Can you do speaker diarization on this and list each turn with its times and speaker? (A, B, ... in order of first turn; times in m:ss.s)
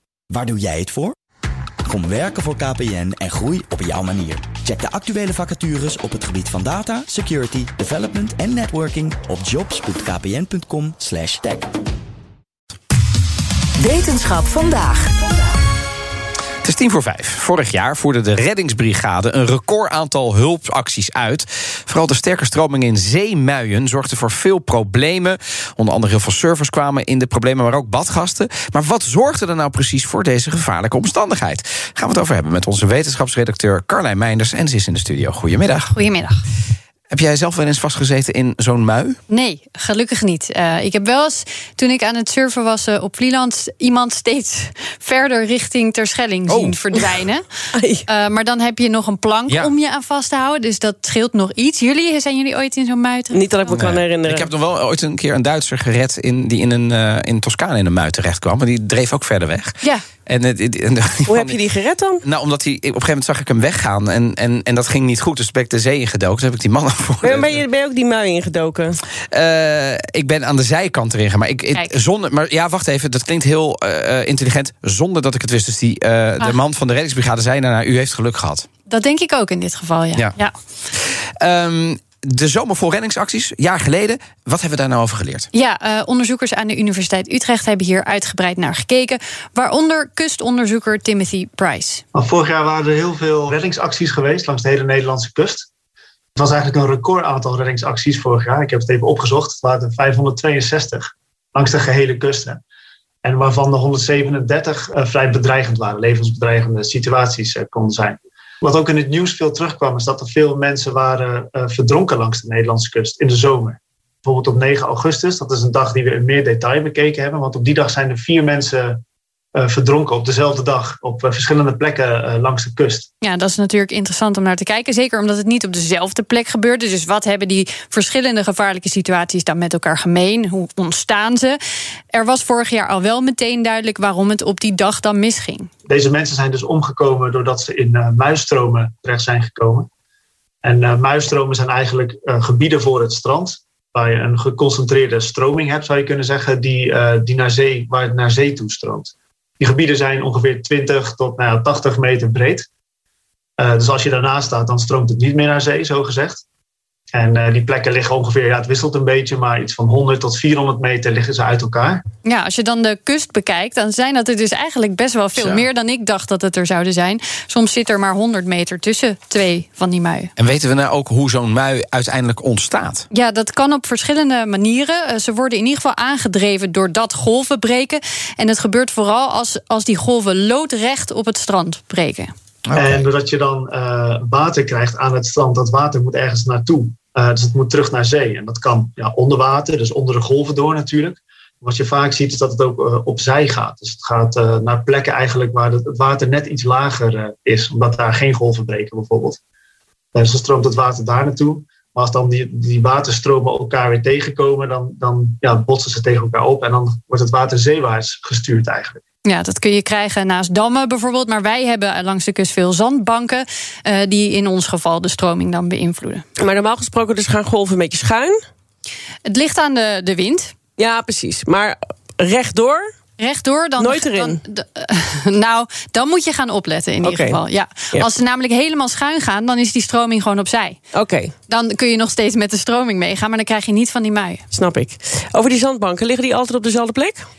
0:00.3-0:01.1 A
0:01.9-0:11.7 A
0:16.6-0:35.9 B
0:35.9-0:36.4 C
0:37.1-0:39.2 B
0:39.3-0:47.5 C
0:46.5-0:46.7 B
0:47.7-0:48.0 D
0:48.1-0:53.8 C
0:53.3-0:54.5 D
0:53.7-1:01.6 B
1:01.2-1:02.2 D
1:02.2-1:07.6 B
1:07.2-1:09.0 D
1:09.3-1:18.6 B
1:18.9-1:20.5 C
1:20.9-1:25.5 B
1:25.5-1:32.0 C
1:32.1-1:35.7 E
1:36.4-1:42.6 E
1:43.2-1:59.0 E
1:59.5-2:03.1 E
2:03.2-2:11.6 C
2:12.1-2:15.7 C
2:15.9-2:19.9 E
2:20.6-2:32.7 E
2:33.6-2:36.4 E
2:37.1-2:42.0 E
2:42.2-2:50.3 C
2:50.4-2:53.0 B
2:53.1-3:02.3 C
3:02.6-3:03.0 B
3:02.7-3:19.4 E
3:20.1-3:29.0 E
3:29.2-3:36.3 C
3:36.4-3:38.4 D
3:39.2-3:40.5 C
3:40.8-3:42.8 D
3:43.2-3:50.8 C
3:43.8-3:44.4 D
3:47.0-3:48.1 D
3:50.9-3:51.3 D
3:51.5-3:54.4 C
3:54.5-3:57.2 D